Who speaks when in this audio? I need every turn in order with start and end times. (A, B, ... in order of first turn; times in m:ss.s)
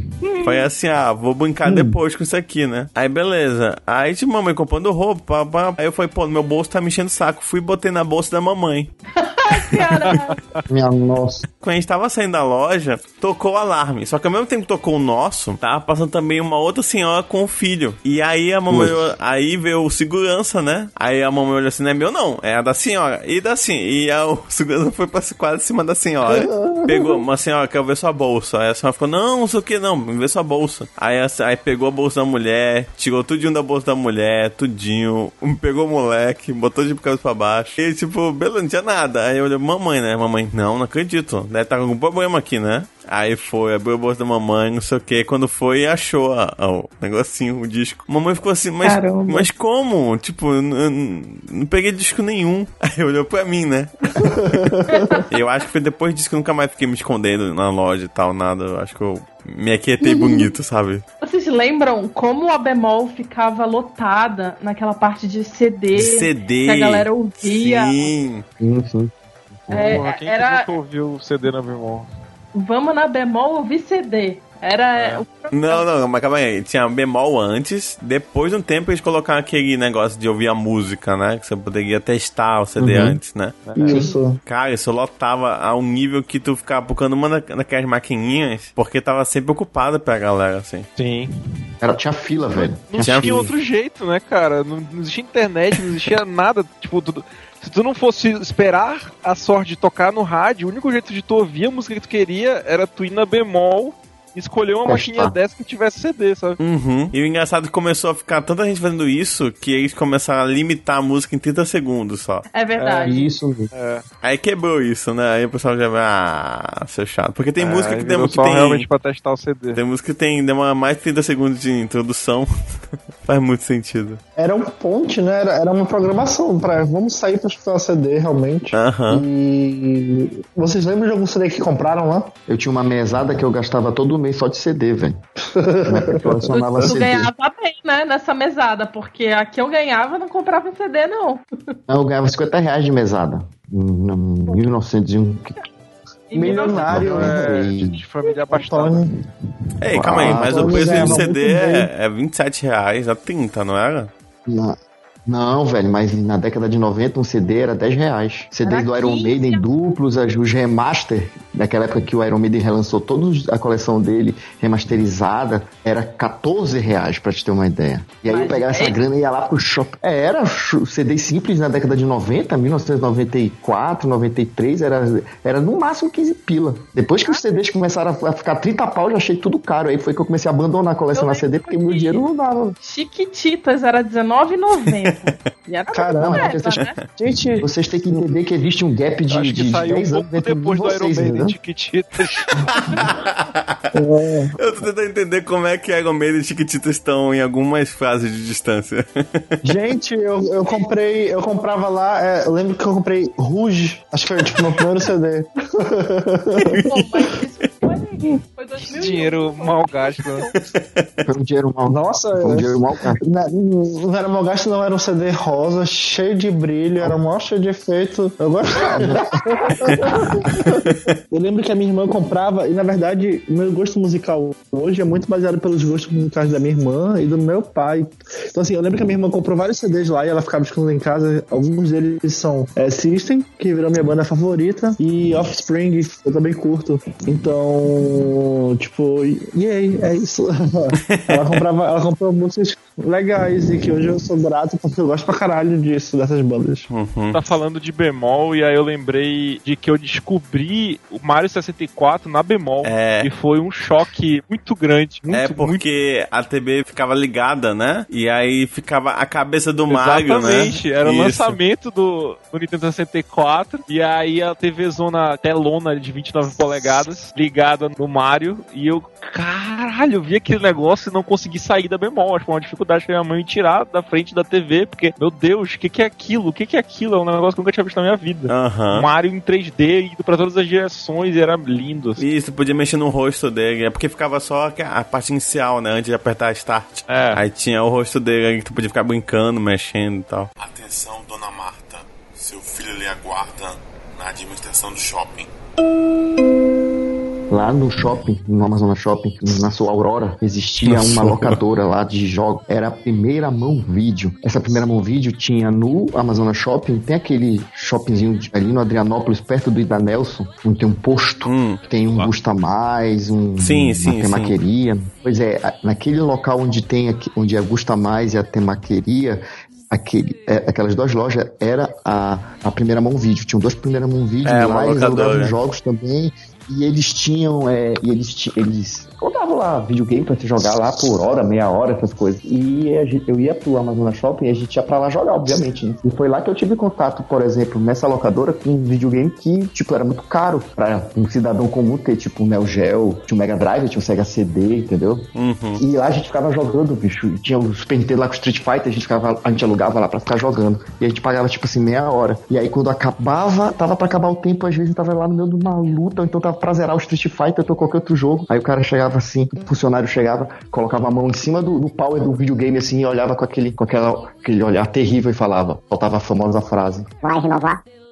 0:00.4-0:08.9 A
0:01.6-0:02.0 B
0:09.2-0:10.4 C
0:10.0-0:10.6 D
0:10.7-0:11.4 B
0:11.6-0:54.3 A
0:18.7-0:19.1 B
0:26.3-0:27.0 B
0:48.8-0:49.5 C
0:54.2-0:55.2 E
0:54.9-0:55.2 C
0:55.3-1:01.0 A
1:00.0-1:00.5 C
1:01.2-1:08.1 C
1:05.9-1:08.4 A
1:08.6-1:10.0 B
1:09.7-1:10.7 C
1:09.8-1:12.1 D
1:12.5-1:15.9 C
1:15.0-1:23.7 A
1:22.8-1:23.2 B
1:23.6-1:24.1 D
1:23.8-1:24.4 E
1:24.4-1:30.9 A
1:31.0-1:31.7 D
1:31.8-1:33.5 B
1:32.5-1:46.6 D
1:33.0-1:33.5 A
1:44.8-1:45.4 B
1:46.6-1:52.4 A
1:52.5-1:53.3 C
1:52.8-1:54.0 D
1:53.0-1:53.7 B
1:54.2-1:58.9 A
1:57.6-1:59.8 D
1:59.7-2:02.5 A
2:03.2-2:04.2 A
2:04.4-2:12.3 E
2:08.7-2:09.2 A
2:12.5-2:15.2 B
2:15.6-2:16.9 E
2:15.8-2:17.3 B
2:16.5-2:21.4 C
2:21.9-2:25.6 B
2:26.3-2:27.2 C
2:26.3-2:28.0 B
2:26.3-2:27.6 E
2:26.9-2:29.0 D
2:28.5-2:29.1 E
2:29.8-2:34.1 A
2:29.9-2:31.2 B
2:30.2-2:31.9 E
2:34.5-3:02.8 B
2:38.6-2:39.7 C
2:48.3-2:49.0 C
2:57.2-2:57.6 C
3:01.1-3:02.2 C
3:02.8-3:07.0 C
3:05.0-3:05.4 A
3:05.9-3:06.5 E
3:06.2-3:06.8 B
3:07.1-3:08.2 E
3:07.6-3:11.6 B
3:09.3-3:12.6 D
3:12.2-3:13.8 A
3:13.9-3:14.5 E
3:14.6-3:19.6 A
3:19.6-3:26.8 E
3:26.6-3:27.4 A
3:26.8-3:30.5 C
3:28.9-3:30.5 D
3:30.7-3:31.3 A
3:31.3-3:33.2 B
3:31.9-4:06.9 E
3:38.8-3:40.8 B
3:40.8-3:41.1 A
4:01.1-4:01.6 A
4:06.9-4:07.4 A
4:07.3-4:15.8 D
4:12.8-4:13.3 A
4:15.3-4:21.6 A
4:19.9-4:42.2 D
4:38.5-4:39.1 A
4:42.2-4:50.5 A
4:47.1-4:47.4 D
4:50.6-4:55.5 F
4:57.5-5:45.2 B
5:00.8-5:01.6 A
5:11.4-5:11.8 A
5:13.6-5:14.6 A
5:24.4-5:25.6 A
5:45.3-5:45.8 A
5:45.8-6:07.7 B